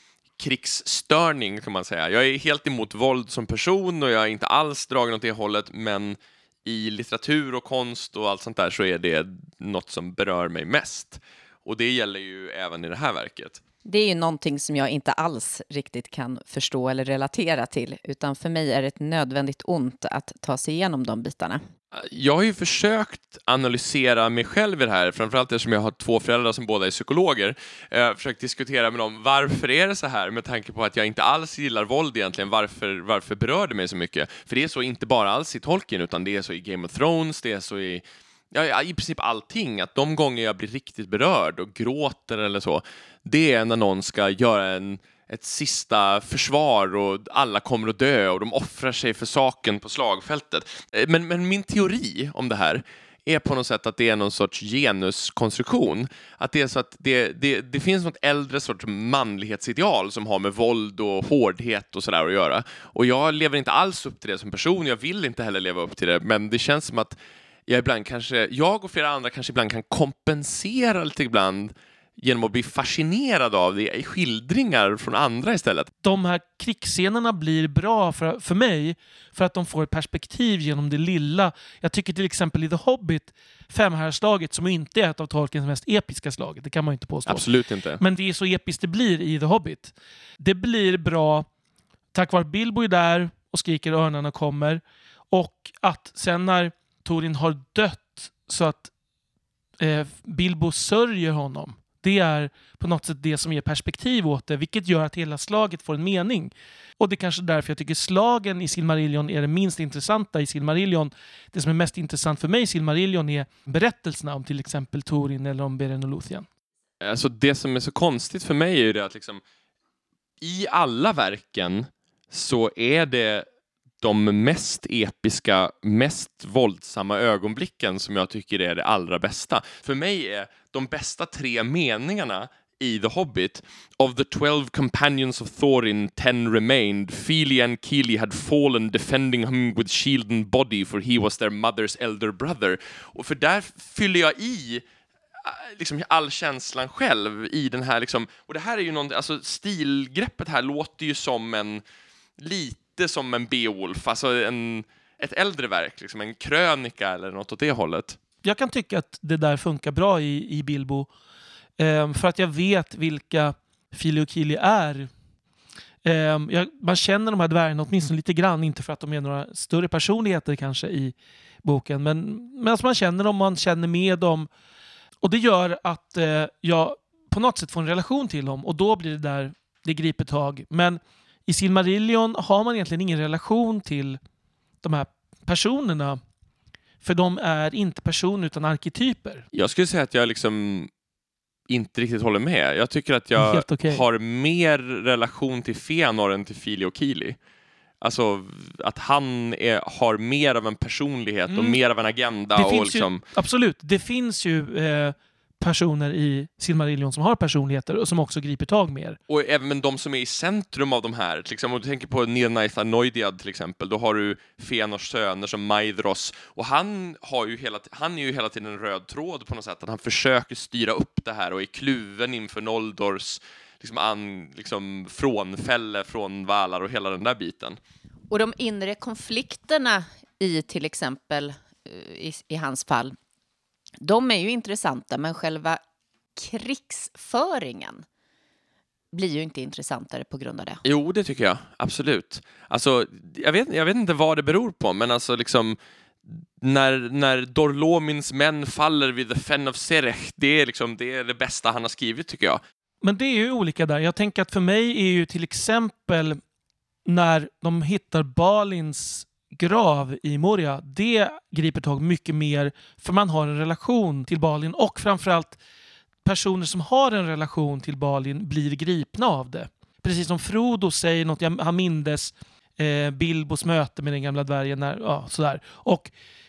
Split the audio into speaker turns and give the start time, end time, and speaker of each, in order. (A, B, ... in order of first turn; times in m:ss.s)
0:00.4-0:13.6 A
0:13.8-0:21.6 B
0:21.9-1:07.2 A
1:07.7-1:15.9 A
1:16.0-1:27.5 C
1:27.3-1:28.0 A
1:28.0-1:31.5 C
1:32.1-1:38.9 C
1:39.8-1:56.5 C
1:57.0-1:59.4 A
2:00.4-2:03.4 A
2:04.0-2:24.8 A
2:25.4-2:31.8 A
2:32.4-2:38.2 A
2:38.4-2:41.1 C
2:41.8-2:45.1 C
2:46.0-2:54.5 C
2:55.2-3:04.2 C
3:04.8-3:06.2 C
3:07.0-3:09.4 C
3:09.5-3:10.9 A
3:11.7-3:17.4 A
3:13.4-3:14.0 C
3:18.0-3:23.2 A
3:21.5-3:21.8 C
3:22.6-3:29.2 C
3:29.3-3:47.8 A
3:48.3-3:53.2 B
3:54.0-3:55.8 B
3:56.4-3:58.0 B
3:59.1-4:00.8 B
4:00.8-4:12.6 A
4:13.0-4:16.4 C
4:17.1-4:25.6 C
4:26.2-4:36.1 C